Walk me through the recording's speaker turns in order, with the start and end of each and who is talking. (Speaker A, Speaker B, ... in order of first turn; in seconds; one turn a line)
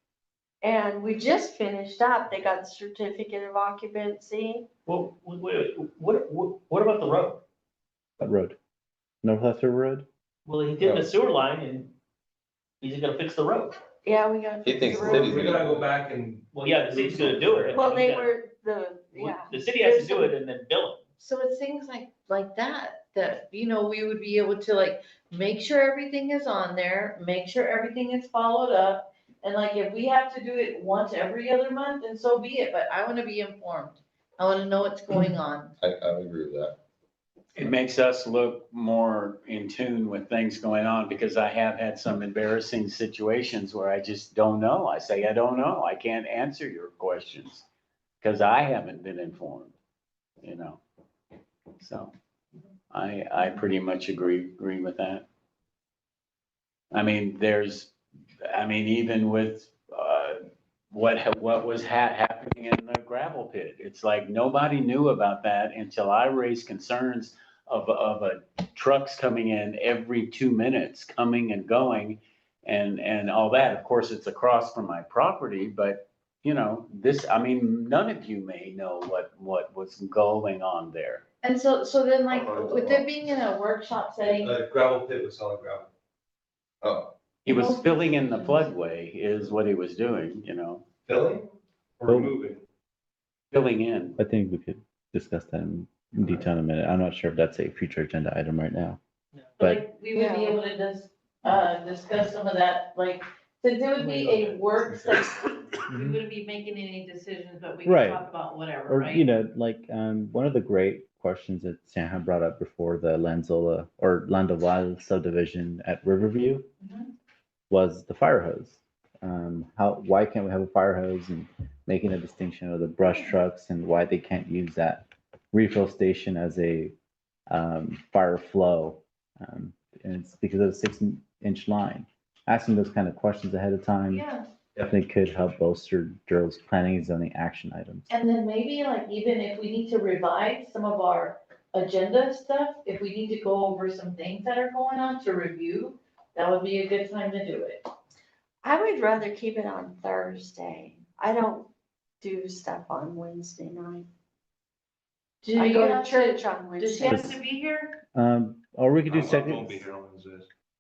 Speaker A: 0.6-4.7
Speaker B: 4.9-7.4
Speaker C: 8.2-8.6
Speaker C: 9.2-10.1
Speaker B: 10.5-11.9
Speaker B: 12.8-13.8
Speaker A: 14.1-15.6
Speaker D: 14.7-15.7
Speaker E: 15.0-17.8
Speaker B: 16.5-18.4
Speaker A: 17.7-20.3
Speaker B: 19.1-21.0
Speaker F: 21.2-35.7
Speaker D: 35.8-36.8
Speaker G: 37.5-47.6
Speaker G: 48.2-49.7
Speaker G: 50.4-50.8
Speaker G: 51.8-52.1
Speaker G: 52.9-55.3
Speaker G: 56.9-57.9
Speaker G: 58.5-60.4
Speaker G: 60.9-81.2
Speaker F: 81.4-84.5
Speaker D: 82.3-83.0
Speaker E: 84.2-85.9
Speaker D: 86.8-87.1
Speaker G: 87.4-90.8
Speaker F: 87.5-88.8
Speaker E: 91.1-92.6
Speaker C: 92.1-92.3
Speaker G: 93.5-94.2
Speaker C: 94.2-99.0
Speaker F: 99.6-109.2
Speaker A: 100.2-100.6
Speaker E: 104.0-105.8
Speaker C: 105.9-106.2
Speaker C: 107.8-108.2
Speaker C: 108.8-116.7
Speaker F: 116.8-117.1
Speaker C: 117.7-126.9
Speaker C: 127.5-134.2
Speaker F: 134.1-134.5
Speaker C: 134.8-138.1
Speaker F: 138.1-147.8
Speaker A: 148.6-151.7
Speaker A: 152.2-154.1
Speaker F: 155.4-158.0
Speaker A: 155.6-157.3
Speaker C: 157.0-157.4
Speaker C: 158.1-159.8
Speaker E: 159.1-160.5